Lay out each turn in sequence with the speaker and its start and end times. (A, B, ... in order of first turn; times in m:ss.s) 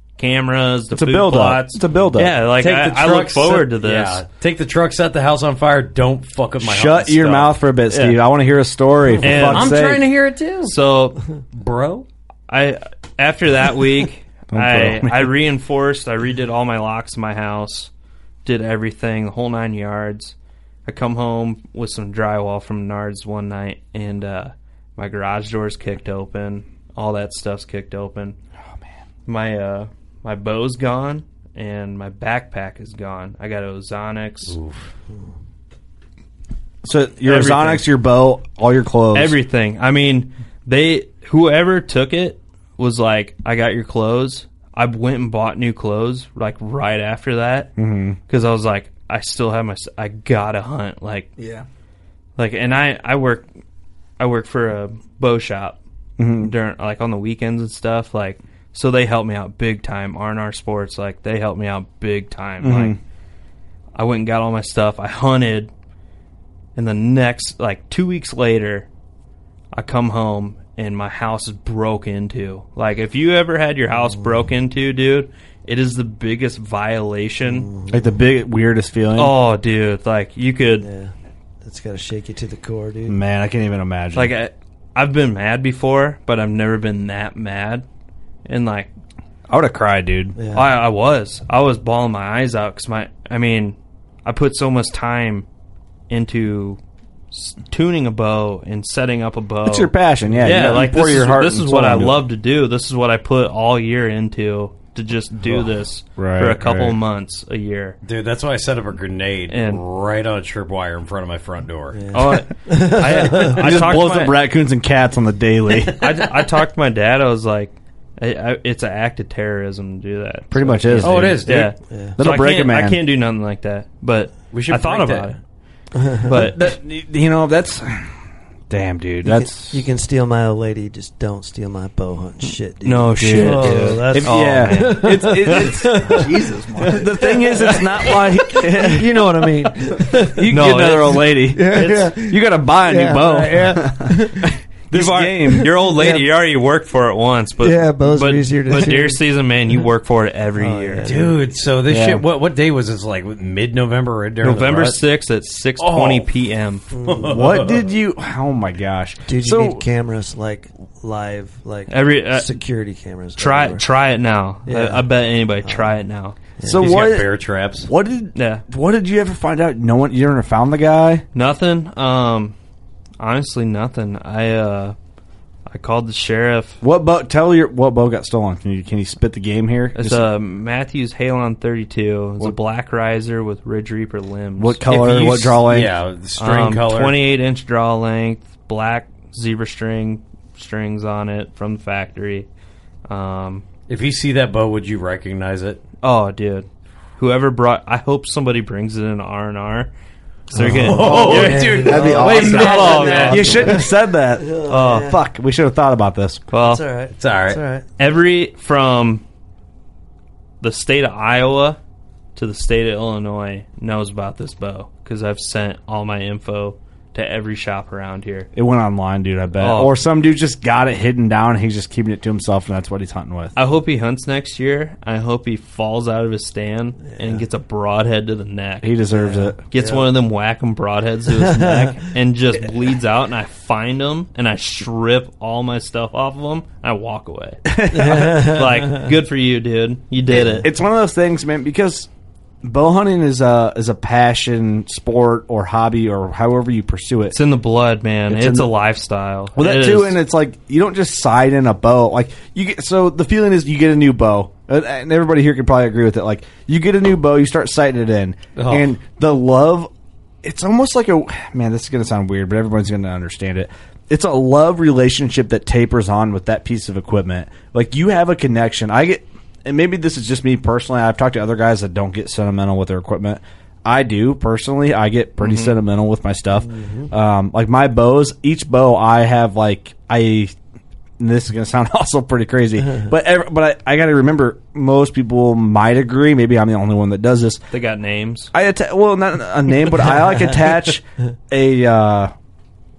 0:00.2-0:04.2 A
0:00.9-0:02.4 B
0:02.6-0:07.6 C
0:06.6-0:10.0 B
0:07.9-0:08.2 A
0:09.2-0:09.7 A
0:09.2-0:10.8 C
0:10.7-0:11.2 A
0:11.5-0:12.1 C
0:12.5-0:17.9 A
0:14.5-0:15.3 B
0:18.4-0:20.4 A
0:20.9-0:28.4 A
0:29.2-0:34.6 A
0:34.5-0:34.9 C
0:36.8-0:39.4 B
0:37.2-0:37.8 A
0:39.1-0:47.7 A
0:47.8-0:48.2 B
0:48.3-0:51.3 A
0:51.4-0:51.6 D
0:52.4-0:53.4 A
0:54.2-0:55.8 A
0:56.2-0:56.5 B
0:56.4-1:03.0 A
1:02.6-1:03.0 B
1:03.9-1:05.7 A
1:06.8-1:08.9 A
1:09.7-1:17.7 A
1:17.4-1:18.2 E
1:17.9-1:19.4 B
1:19.1-1:20.9 A
1:20.8-1:23.2 E
1:23.1-1:24.3 B
1:24.1-1:27.8 A
1:28.4-1:28.9 A
1:29.5-1:30.4 B
1:30.4-1:30.7 E
1:30.5-1:35.4 A
1:36.1-1:36.8 A
1:37.3-1:48.0 A
1:39.6-1:42.2 B
1:46.2-1:47.0 B
1:48.0-1:52.0 C
1:49.5-1:49.8 A
1:51.9-1:53.9 E
1:52.1-1:54.4 A
1:53.2-1:56.1 B
1:56.0-2:05.4 A
2:00.5-2:01.5 B
2:01.0-2:01.7 C
2:01.9-2:02.2 E
2:02.2-2:03.0 B
2:04.5-2:05.4 C
2:06.0-2:06.3 E
2:06.2-2:06.7 A
2:06.3-2:08.1 B
2:08.7-2:09.9 B
2:09.2-2:20.5 E
2:12.8-2:15.9 A
2:13.2-2:16.2 B
2:16.1-2:17.1 D
2:16.9-2:19.2 B
2:20.3-2:23.8 B
2:20.5-2:22.1 A
2:21.5-2:24.5 E
2:23.8-2:24.1 D
2:24.4-2:25.9 B
2:24.9-2:31.1 A
2:25.8-2:26.2 E
2:27.6-2:29.2 E
2:30.6-2:31.4 E
2:31.0-2:35.0 C
2:31.9-2:32.2 B
2:34.4-2:36.8 A
2:35.8-2:36.3 C
2:37.0-2:37.3 E
2:37.0-2:37.8 C
2:37.3-2:39.8 B
2:39.3-2:43.8 E
2:41.9-2:42.5 A
2:43.4-2:46.4 A
2:44.6-2:45.1 E
2:45.6-2:45.9 E
2:46.6-2:46.9 E
2:46.6-2:47.3 B
2:46.7-2:47.9 C
2:47.9-2:51.2 B
2:48.4-2:48.6 A
2:51.3-2:52.5 A
2:53.2-2:54.9 A
2:55.7-2:56.8 A
2:56.8-3:00.3 B
2:59.9-3:04.8 A
3:04.6-3:05.9 B
3:04.9-3:07.2 C
3:06.4-3:12.5 A
3:13.1-3:13.6 A
3:13.9-3:15.8 C
3:16.0-3:16.7 A
3:17.2-3:19.9 A
3:20.5-3:21.4 B
3:20.5-3:23.9 E
3:20.6-3:23.6 A
3:20.8-3:23.8 C
3:20.9-3:23.6 D
3:23.3-3:26.5 B
3:24.4-3:25.2 E
3:24.7-3:25.1 A
3:26.5-3:26.8 A
3:26.6-3:27.8 E
3:27.2-3:27.6 C
3:28.0-3:29.2 A
3:30.6-3:31.8 A
3:32.4-3:38.5 A
3:38.5-3:43.5 B
3:39.6-3:39.9 A
3:43.6-3:48.9 A
3:48.8-3:49.6 B
3:49.1-3:50.1 E
3:49.7-4:00.7 A
3:51.4-3:51.9 E
3:57.7-3:58.6 B
3:57.9-3:58.9 E
4:00.4-4:02.1 B
4:02.6-4:07.4 B
4:07.3-4:10.2 A
4:08.3-4:08.7 B
4:09.6-4:19.9 B
4:18.6-4:18.9 C
4:20.4-4:40.5 B
4:35.4-4:35.8 A
4:41.2-4:47.6 B
4:47.7-4:48.5 A
4:48.5-4:52.3 B